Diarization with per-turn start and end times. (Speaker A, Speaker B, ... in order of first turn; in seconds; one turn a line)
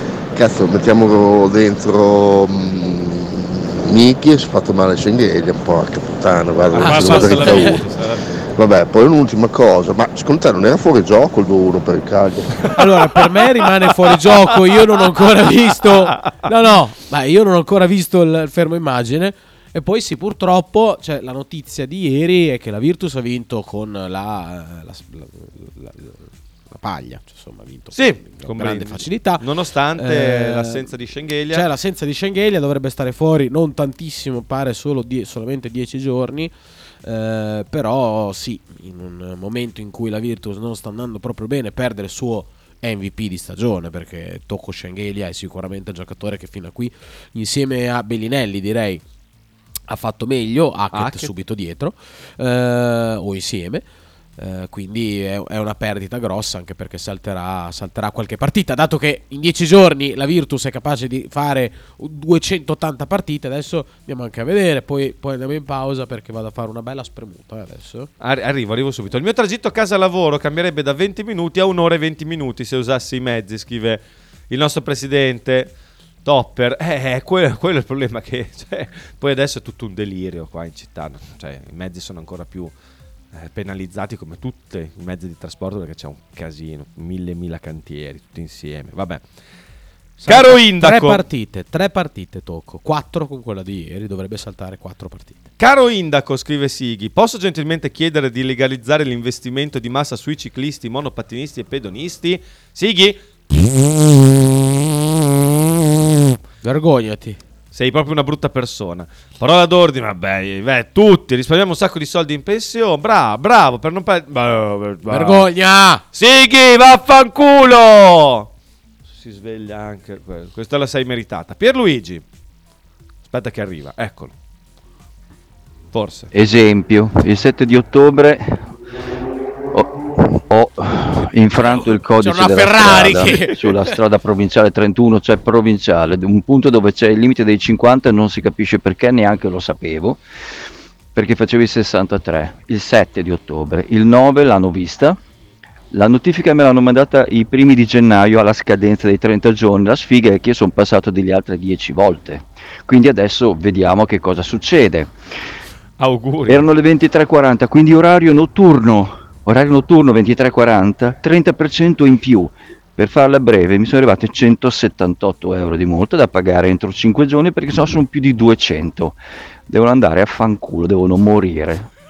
Speaker A: 0.3-7.8
Speaker B: 6.7-8.3
Speaker C: 6.7-7.8
Speaker A: 8.6-12.7
Speaker C: 12.7-29.4
Speaker B: 27.9-31.7
Speaker C: 30.0-30.9
Speaker C: 31.5-36.5
Speaker C: 37.0-49.0
Speaker C: 49.9-53.8
Speaker B: 50.9-51.3
Speaker C: 54.4-68.1
Speaker B: 68.2-75.7
Speaker B: 76.2-82.7
Speaker B: 83.3-89.2
Speaker C: 90.2-95.4
Speaker B: 90.3-91.2
Speaker B: 95.6-103.7
Speaker C: 106.6-107.4
Speaker B: 107.7-115.5
Speaker C: 115.1-116.0
Speaker B: 116.1-118.5
Speaker B: 119.1-122.2
Speaker B: 123.3-124.3
Speaker B: 125.9-126.3
Speaker D: 126.3-128.7
Speaker D: 129.7-140.2
Speaker C: 131.6-134.0
Speaker D: 141.1-145.2
Speaker D: 145.9-155.1
Speaker B: 156.0-156.7
Speaker D: 156.5-171.9